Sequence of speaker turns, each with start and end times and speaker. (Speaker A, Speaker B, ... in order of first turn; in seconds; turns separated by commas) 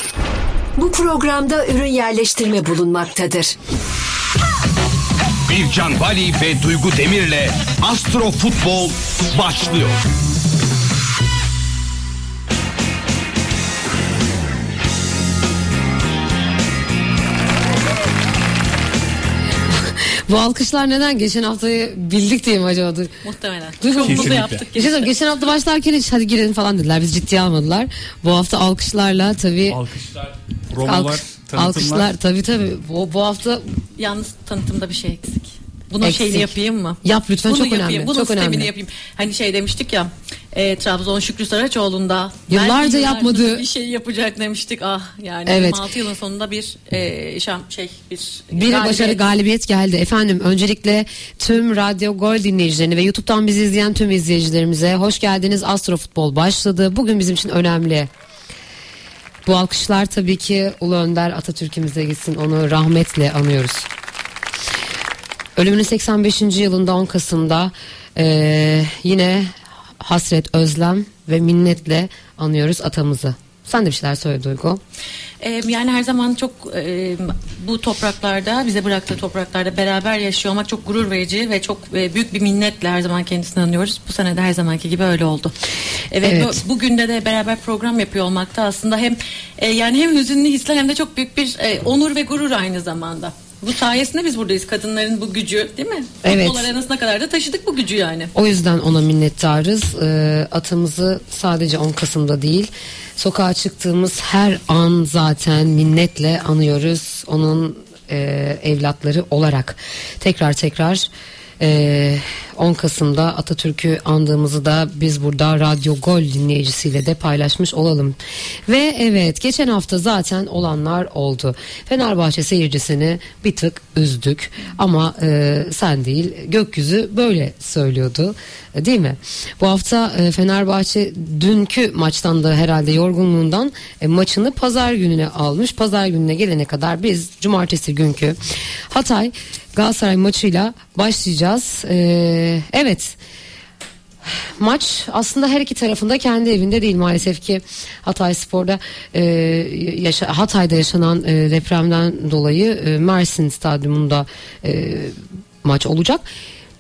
Speaker A: 0.8-3.6, Speaker B: 5.5-10.0, Speaker C: 19.7-23.1, Speaker D: 23.2-25.1, Speaker C: 23.8-29.8, Speaker E: 24.0-24.6, Speaker E: 29.7-32.1, Speaker C: 30.8-33.6, Speaker D: 34.0-49.2, Speaker C: 36.0-36.5, Speaker C: 37.0-38.7, Speaker C: 42.5-43.6, Speaker C: 45.5-45.8, Speaker C: 48.5-58.1, Speaker C: 59.5-63.9, Speaker C: 65.6-74.8, Speaker D: 75.4-85.5, Speaker D: 86.1-98.3, Speaker C: 86.2-86.6, Speaker C: 96.2-96.7, Speaker C: 98.3-111.1, Speaker C: 111.6-143.2, Speaker C: 144.2-156.3